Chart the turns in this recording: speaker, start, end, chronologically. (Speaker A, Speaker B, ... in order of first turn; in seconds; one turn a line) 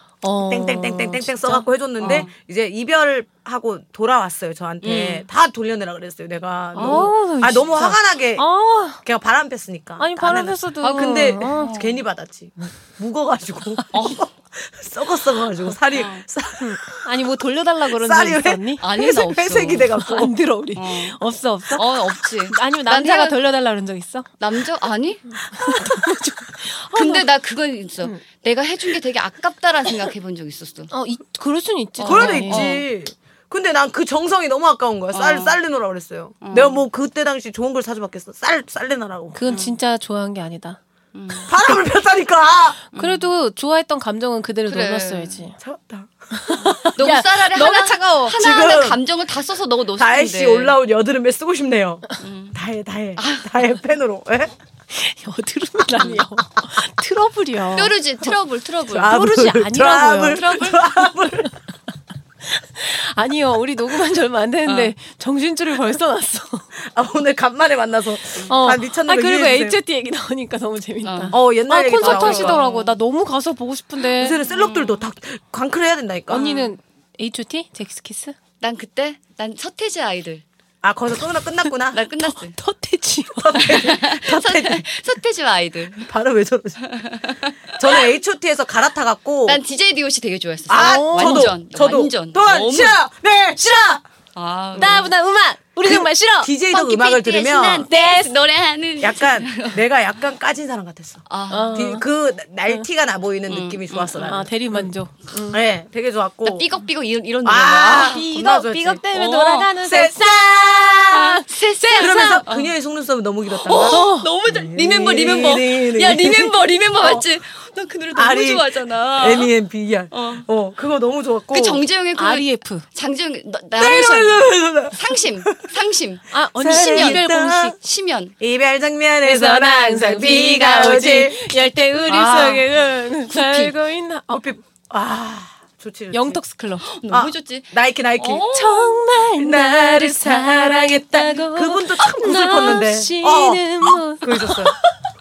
Speaker A: 0.2-2.2
Speaker B: 0.5-8.4
Speaker C: 2.0-2.3
Speaker C: 4.8-5.2
Speaker A: 6.8-9.0
Speaker C: 6.8-7.1
Speaker B: 9.0-17.1
Speaker A: 10.0-11.8
Speaker C: 11.5-12.0
Speaker C: 13.9-14.2
Speaker C: 15.9-16.2
Speaker A: 16.6-18.8
Speaker B: 17.9-20.3
Speaker C: 18.8-19.9
Speaker A: 20.0-24.3
Speaker C: 20.8-21.2
Speaker C: 21.7-23.4
Speaker C: 24.4-25.3
Speaker A: 25.3-27.3
Speaker C: 26.9-30.9
Speaker A: 30.9-32.7
Speaker C: 32.0-32.8
Speaker B: 32.0-39.4
Speaker C: 35.1-35.6
Speaker C: 36.4-36.8
Speaker A: 39.3-40.8
Speaker C: 39.5-39.8
Speaker C: 41.1-41.5
Speaker B: 41.5-42.8
Speaker C: 42.9-43.3
Speaker A: 42.9-45.6
Speaker C: 44.7-45.4
Speaker B: 45.6-46.9
Speaker A: 46.3-48.4
Speaker C: 47.0-50.7
Speaker B: 48.3-49.0
Speaker B: 50.0-54.5
Speaker C: 52.2-52.6
Speaker C: 53.2-53.8
Speaker A: 54.9-57.9
Speaker C: 56.0-56.2
Speaker C: 57.7-59.1
Speaker B: 58.9-61.5
Speaker A: 59.0-60.4
Speaker C: 60.3-60.9
Speaker A: 62.5-66.7
Speaker C: 64.7-64.9
Speaker B: 66.8-69.8
Speaker A: 68.5-74.4
Speaker C: 71.0-71.4
Speaker B: 71.3-72.6
Speaker C: 71.9-73.0
Speaker B: 74.2-76.5
Speaker C: 74.5-75.0
Speaker A: 76.3-78.3
Speaker C: 76.3-76.7
Speaker C: 78.6-80.4
Speaker B: 80.8-82.0
Speaker C: 81.9-82.6
Speaker A: 82.2-83.7
Speaker B: 83.3-84.9
Speaker C: 83.5-86.1
Speaker B: 86.0-86.9
Speaker C: 86.8-88.1
Speaker B: 87.8-89.6
Speaker C: 89.5-93.0
Speaker B: 90.7-94.0
Speaker A: 90.7-91.5
Speaker C: 94.3-95.1
Speaker B: 94.7-95.0
Speaker A: 94.8-96.5
Speaker B: 95.8-97.9
Speaker C: 96.7-99.8
Speaker A: 97.9-98.3
Speaker B: 99.0-104.9
Speaker C: 101.3-101.9
Speaker A: 101.5-102.0
Speaker C: 103.5-104.5
Speaker A: 104.2-105.6
Speaker B: 105.5-106.7
Speaker C: 106.4-108.3
Speaker B: 107.4-109.0
Speaker A: 108.0-112.4
Speaker C: 109.1-109.8
Speaker B: 109.8-111.2
Speaker C: 111.1-112.7
Speaker B: 111.9-117.2
Speaker C: 113.5-119.5
Speaker A: 113.8-114.3
Speaker B: 118.1-121.8
Speaker C: 120.1-120.5
Speaker C: 121.5-127.2
Speaker A: 122.2-122.8
Speaker B: 123.8-125.7
Speaker A: 126.3-127.8
Speaker B: 126.6-127.8
Speaker C: 127.8-128.3
Speaker B: 128.4-132.7
Speaker A: 129.2-134.4
Speaker C: 133.3-133.7
Speaker B: 134.3-136.4
Speaker A: 136.1-136.8
Speaker C: 136.8-139.1
Speaker B: 137.1-138.4
Speaker A: 138.5-144.8
Speaker B: 139.4-144.7